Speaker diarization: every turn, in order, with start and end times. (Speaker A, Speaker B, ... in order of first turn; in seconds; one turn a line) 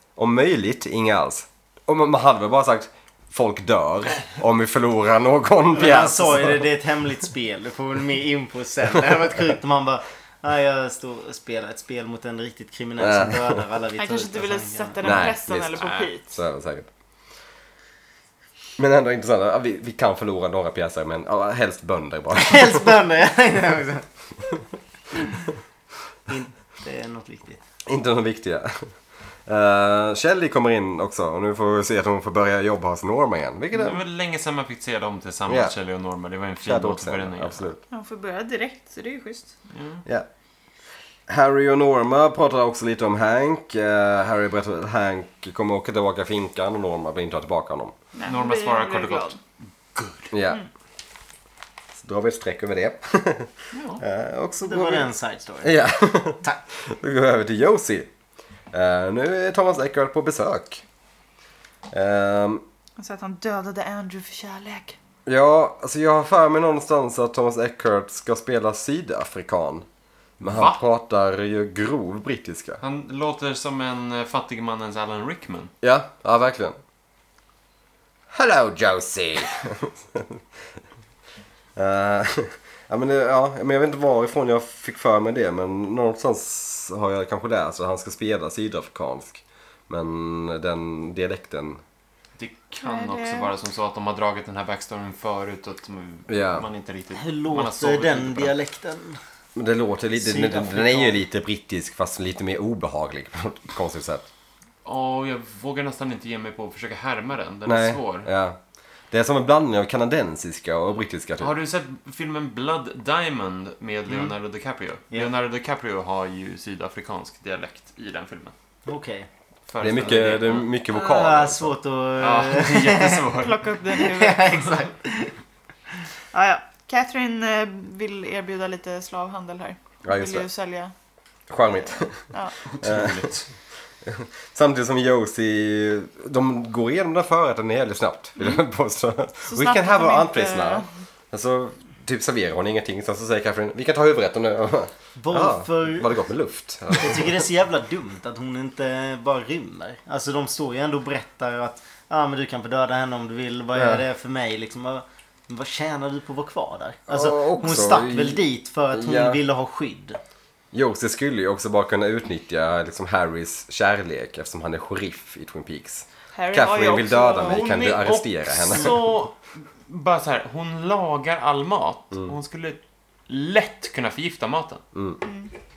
Speaker A: 0.2-6.6
Speaker B: 5.8-15.1
Speaker A: 13.0-13.6
Speaker C: 14.0-16.2
Speaker A: 15.0-16.9
Speaker D: 15.7-16.1
Speaker A: 18.8-22.9
Speaker B: 22.3-24.1
Speaker B: 26.3-27.6
Speaker A: 27.9-28.9
Speaker A: 29.5-34.0
Speaker D: 33.7-37.7
Speaker A: 35.5-35.7
Speaker A: 36.6-37.8
Speaker C: 37.9-39.5
Speaker D: 39.7-40.0
Speaker A: 41.3-47.9
Speaker C: 48.1-49.4
Speaker D: 48.2-49.4
Speaker D: 50.0-50.3
Speaker A: 50.3-50.6
Speaker A: 52.0-55.1
Speaker D: 53.7-54.0
Speaker B: 54.6-55.9
Speaker A: 55.6-58.1
Speaker A: 58.7-60.8
Speaker A: 61.9-62.6
Speaker C: 63.0-65.0
Speaker A: 65.3-69.9
Speaker A: 70.4-72.8
Speaker D: 70.4-70.8
Speaker D: 72.8-75.7
Speaker A: 75.8-76.8
Speaker A: 78.3-80.4
Speaker A: 81.8-91.8
Speaker D: 92.4-98.5
Speaker C: 92.8-93.5
Speaker A: 96.3-96.7
Speaker B: 97.2-99.2
Speaker A: 99.5-104.3
Speaker B: 100.2-101.2
Speaker D: 104.8-108.3
Speaker A: 107.7-108.6
Speaker A: 109.1-111.5
Speaker D: 111.4-118.5
Speaker B: 118.9-119.3
Speaker D: 119.7-120.7
Speaker A: 119.8-121.8
Speaker B: 120.9-123.3
Speaker D: 122.2-123.7
Speaker C: 123.3-124.7
Speaker B: 123.9-125.3
Speaker C: 126.3-130.9
Speaker A: 130.0-130.5
Speaker A: 131.5-132.3
Speaker C: 131.9-132.6
Speaker D: 132.6-133.5
Speaker A: 132.8-133.3
Speaker A: 134.0-147.4
Speaker C: 139.5-140.9
Speaker B: 145.2-146.1
Speaker B: 146.9-160.2
Speaker A: 153.8-154.0
Speaker A: 157.1-159.4
Speaker A: 160.7-169.1
Speaker C: 166.3-168.0
Speaker D: 167.4-174.8
Speaker A: 174.9-175.2
Speaker C: 175.2-175.5